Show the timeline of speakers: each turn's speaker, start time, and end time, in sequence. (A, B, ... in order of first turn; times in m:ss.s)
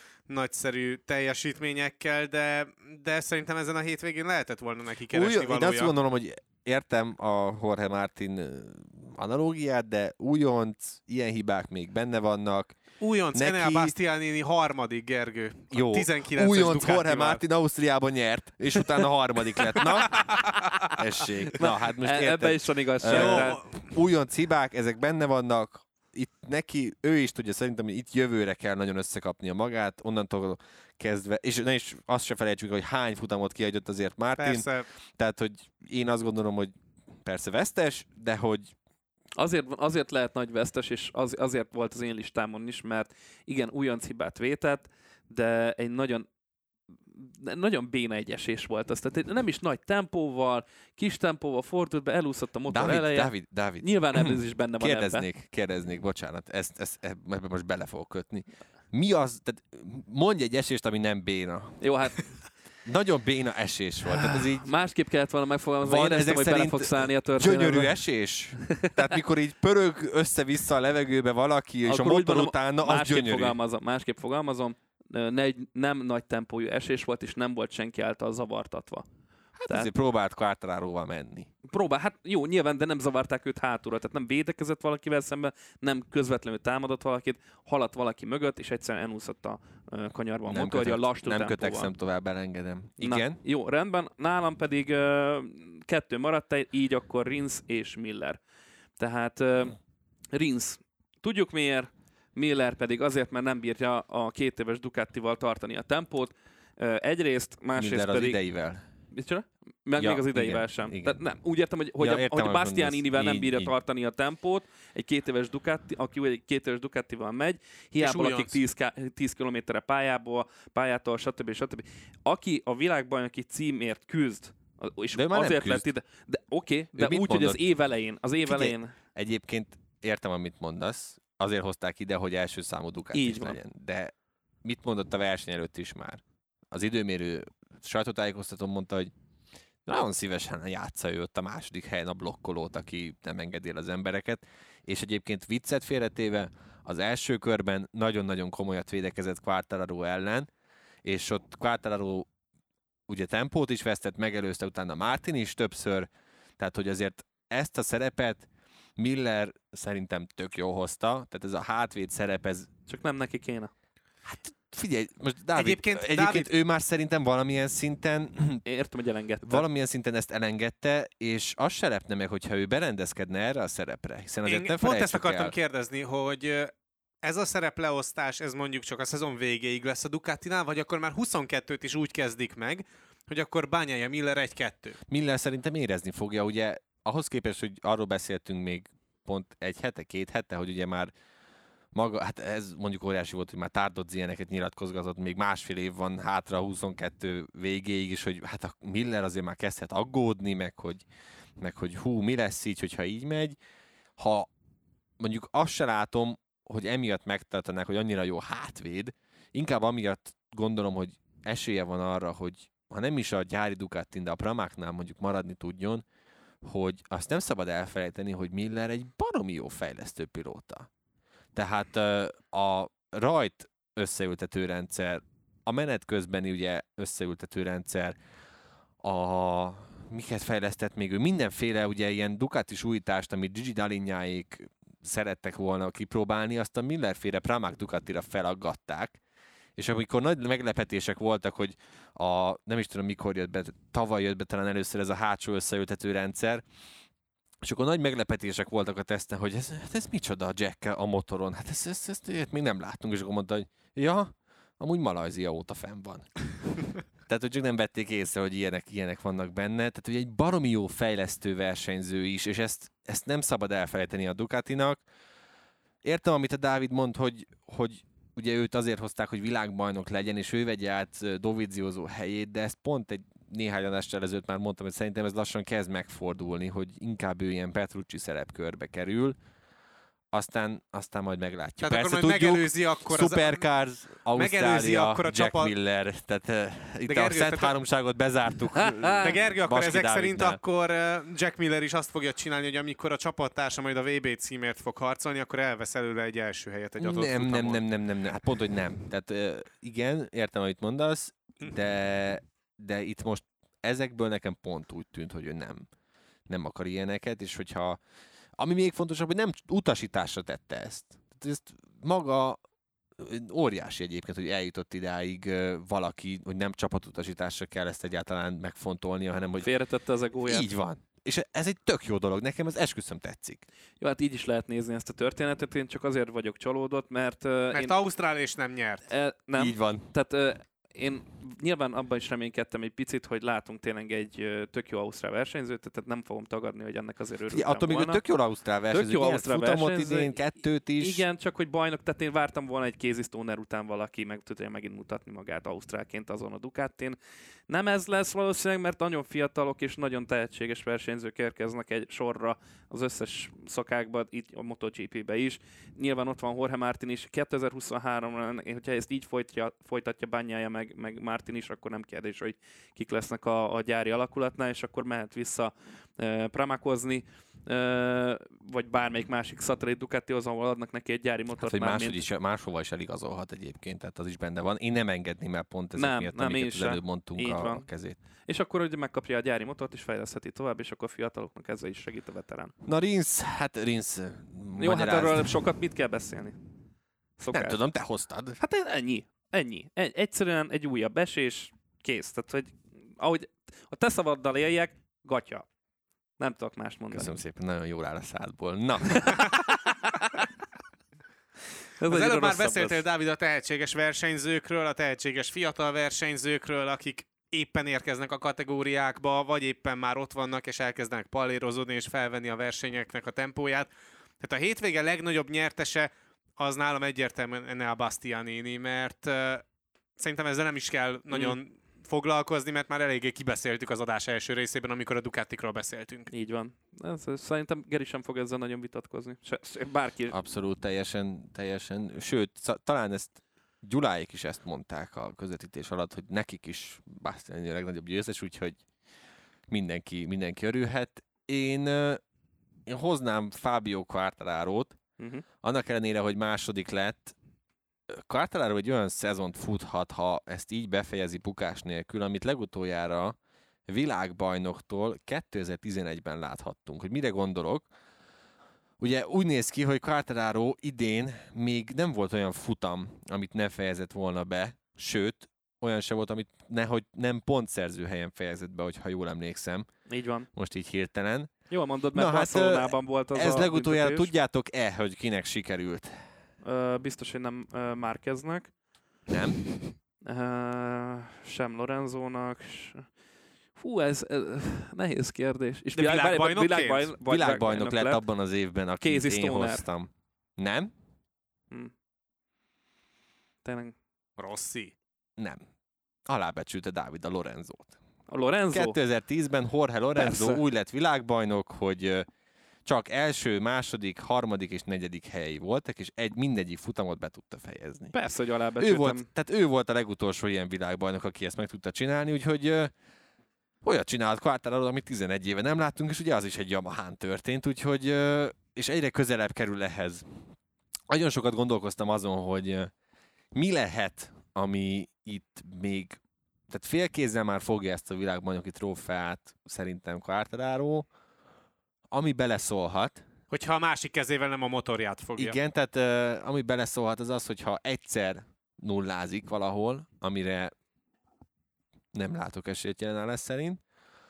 0:00.3-0:05.9 A
0:05.1-0:12.8 B
0:13.0-0:17.4 A
0:13.3-0:13.9 B
0:15.7-0:34.6 B
0:20.2-0:20.9 A
0:21.6-0:23.6 C
0:23.1-0:23.8 A
0:34.4-0:34.9 A
0:35.2-0:36.7 B
0:37.2-0:38.7 B
0:39.4-0:46.2 C
0:47.1-0:55.2 C
0:52.7-1:01.8 B
1:01.8-1:02.2 C
1:02.8-1:04.7 B
1:04.1-1:08.0 C
1:05.8-1:13.6 B
1:08.6-1:09.0 C
1:11.8-1:19.0 C
1:19.6-1:21.5 B
1:21.7-1:31.9 C
1:30.5-1:33.4 B
1:33.0-1:38.4 C
1:39.0-1:39.8 C
1:40.3-1:48.4 C
1:47.7-1:48.8 B
1:49.1-2:08.9 C
1:50.0-1:51.2 B
1:52.0-1:53.7 B
1:58.0-1:58.6 A
2:05.1-2:05.9 B
2:07.0-2:07.6 B
2:08.5-2:14.1 B
2:13.1-2:13.6 C
2:14.6-2:19.1 B
2:19.8-2:30.5 B
2:31.0-2:32.3 B
2:33.1-2:36.1 B
2:36.6-2:38.4 B
2:39.0-2:42.7 B
2:42.9-2:43.7 C
2:44.2-2:48.6 B
2:45.5-2:46.5 A
2:48.6-2:49.6 C
2:49.4-2:55.5 B
2:54.4-2:56.7 A
2:57.2-3:05.0 A
3:05.1-3:11.1 B
3:11.9-3:21.0 B
3:21.6-3:23.6 B
3:24.2-3:24.5 B
3:25.2-3:36.0 B
3:36.6-3:40.9 B
3:41.5-3:48.1 B
3:49.0-3:59.2 B
3:59.8-4:06.6 B
4:07.6-4:25.0 B
4:26.0-4:39.4 B
4:40.3-4:50.6 B
4:41.8-4:43.6 A
4:44.3-4:45.7 A
4:47.1-4:47.7 A
4:48.7-4:49.3 C
4:49.2-4:57.8 A
4:57.0-5:05.9 B
5:06.5-5:08.0 B
5:08.6-5:12.6 B
5:13.2-5:19.7 B
5:19.6-5:20.7 C
5:20.4-5:23.6 B
5:24.0-5:28.0 C
5:27.7-5:29.0 A
5:29.1-5:38.2 C
5:29.6-5:30.1 B
5:37.5-5:41.2 B
5:38.9-5:40.4 C
5:41.0-5:47.2 C
5:47.7-6:12.2 C
6:11.6-6:18.2 B
6:15.9-6:17.9 C
6:18.4-6:22.7 C
6:22.8-6:25.5 B
6:24.8-6:26.6 C
6:27.4-6:27.8 C
6:27.5-6:28.6 B
6:28.6-6:35.7 C
6:36.4-6:37.3 C
6:37.1-6:39.7 B
6:39.1-6:40.4 C
6:42.0-6:43.0 C
6:42.1-6:53.9 A
6:54.4-6:59.6 A
7:00.2-7:06.3 A
7:01.3-7:01.6 C
7:06.3-7:10.3 C
7:10.3-7:18.8 B
7:19.7-7:22.2 B
7:22.9-7:25.0 B
7:25.2-7:25.4 C
7:25.6-7:27.3 B
7:28.1-7:37.9 B
7:39.0-7:49.9 B
7:50.1-7:50.5 C
7:50.5-7:51.5 B
7:51.7-7:54.3 C
7:52.1-7:56.2 B
7:56.6-7:58.7 C
7:59.3-7:59.6 B
8:00.2-8:03.1 C
8:03.8-8:08.2 C
8:05.9-8:07.1 A
8:07.2-8:10.9 B
8:09.0-8:09.8 C
8:13.6-8:13.9 C
8:14.4-8:14.9 A
8:15.4-8:15.6 B
8:16.2-8:18.0 B
8:18.3-8:19.0 C
8:18.7-8:22.3 B
8:20.2-8:20.6 C
8:22.8-8:28.1 B
8:28.1-8:29.3 C
8:28.8-8:32.9 B
8:33.8-8:40.3 B
8:41.1-8:42.9 B
8:43.5-8:51.1 B
8:52.1-8:53.2 B
8:53.5-8:55.6 A
8:55.4-9:00.7 B
9:02.1-9:03.8 B